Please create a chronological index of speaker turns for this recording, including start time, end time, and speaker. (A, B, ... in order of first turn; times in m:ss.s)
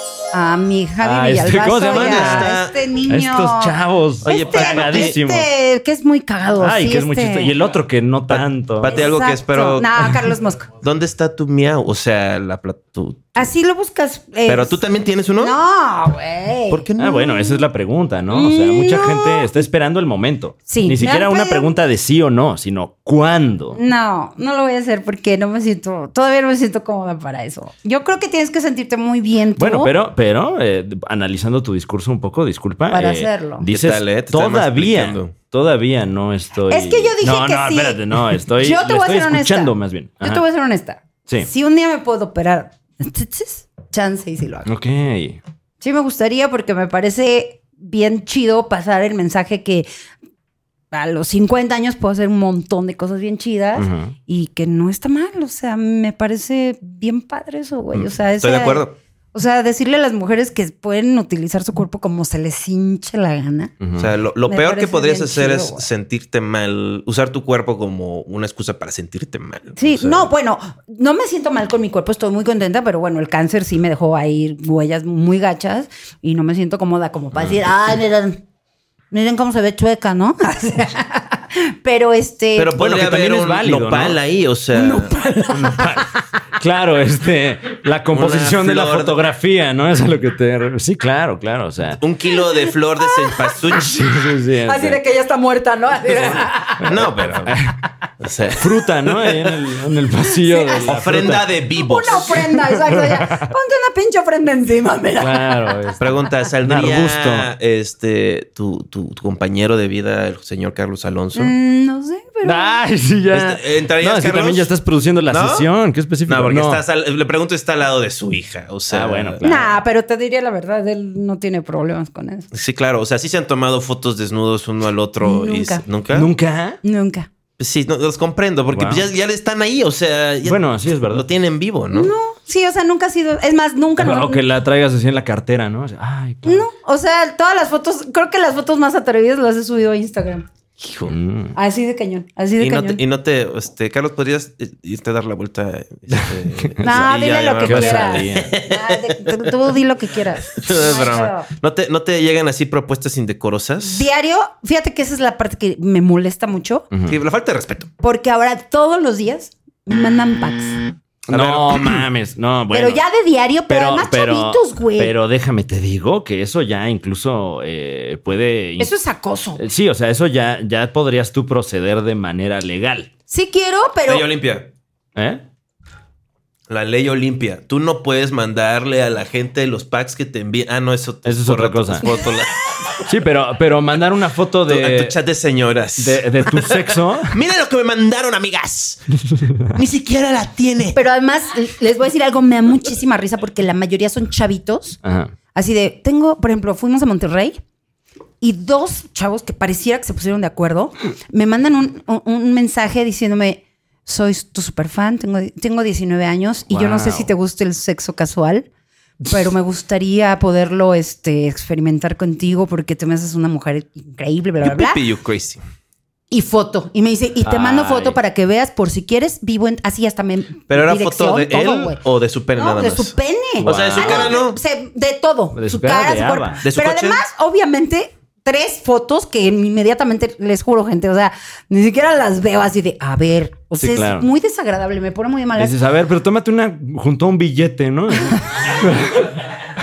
0:00.3-0:07.6 A
0:01.0-0:05.5 B
0:01.9-0:02.8 C
0:04.2-0:05.2 C
0:06.6-0:09.0 B
0:08.3-0:10.1 C
0:08.9-0:10.7 A
0:10.8-0:13.4 C
0:13.4-0:14.8 A
0:14.5-0:15.6 C
0:15.4-0:17.6 A
0:16.7-0:17.4 C
0:17.0-0:23.8 B
0:18.3-0:19.5 A
0:20.7-0:21.7 A
0:23.8-0:29.9 A
0:29.6-0:40.4 B
0:32.9-0:33.7 A
0:33.7-0:35.3 C
0:36.7-0:44.7 A
0:44.6-0:45.4 B
0:45.8-0:49.9 A
0:50.9-1:03.7 A
0:53.8-0:54.2 B
0:57.9-0:59.0 C
1:03.8-1:04.1 B
1:04.0-1:10.3 C
1:04.5-1:05.9 A
1:09.8-1:18.4 A
1:19.1-1:22.8 A
1:22.6-1:25.2 C
1:22.8-1:24.2 B
1:24.8-1:26.1 A
1:25.5-1:32.0 B
1:28.1-1:29.2 C
1:32.0-1:34.1 C
1:32.4-1:33.6 A
1:33.7-1:35.0 B
1:34.6-1:36.9 A
1:36.4-1:37.8 B
1:36.8-1:37.6 C
1:38.2-1:38.7 C
1:38.6-1:41.5 B
1:40.3-1:40.9 A
1:40.9-1:42.6 C
1:41.8-1:46.0 A
1:42.2-1:43.5 B
1:45.2-1:46.0 B
1:46.0-1:51.5 C
1:46.6-1:47.5 B
1:51.4-1:52.8 A
1:52.4-1:56.8 B
1:53.3-1:54.7 C
1:55.3-1:55.7 C
1:56.3-1:59.4 C
1:58.9-1:59.7 B
1:59.4-2:02.5 A
2:02.5-2:06.3 C
2:05.2-2:05.8 A
2:06.1-2:06.8 B
2:06.8-2:07.3 A
2:07.6-2:12.1 C
2:08.7-2:09.0 B
2:10.4-2:11.3 B
2:11.9-2:14.4 A
2:14.0-2:16.7 B
2:16.4-2:20.5 A
2:20.8-2:21.1 C
2:21.1-2:21.6 B
2:21.6-2:23.0 A
2:22.6-2:29.4 C
2:26.1-2:27.1 B
2:26.8-2:31.5 A
2:27.6-2:28.5 B
2:30.5-2:34.1 C
2:33.9-2:36.9 A
2:36.9-2:37.2 B
2:37.1-2:37.9 C
2:38.0-2:40.9 A
2:41.3-2:42.1 C
2:41.3-2:43.0 B
2:42.7-2:45.1 A
2:43.7-2:48.9 B
2:48.8-2:49.6 A
2:49.6-2:53.1 B
2:53.3-2:54.3 A
2:54.1-2:54.7 C
2:55.2-2:55.4 B
2:56.7-3:03.0 C
3:01.2-3:02.1 B
3:03.0-3:05.2 B
3:04.7-3:09.1 C
3:06.0-3:07.4 B
3:09.3-3:09.7 B
3:09.6-3:11.0 C
3:11.0-3:15.0 A
3:15.0-3:15.3 B
3:15.5-3:17.6 A
3:18.4-3:28.7 A
3:26.7-3:27.3 B
3:29.2-3:35.0 A
3:34.6-3:35.6 C
3:36.3-3:42.0 A
3:37.4-3:38.2 B
3:40.7-3:44.6 C
3:42.6-3:55.8 A
3:43.6-3:44.4 B
3:45.5-3:46.6 B
3:46.6-3:47.2 C
3:53.8-3:54.3 B
3:55.6-3:59.7 B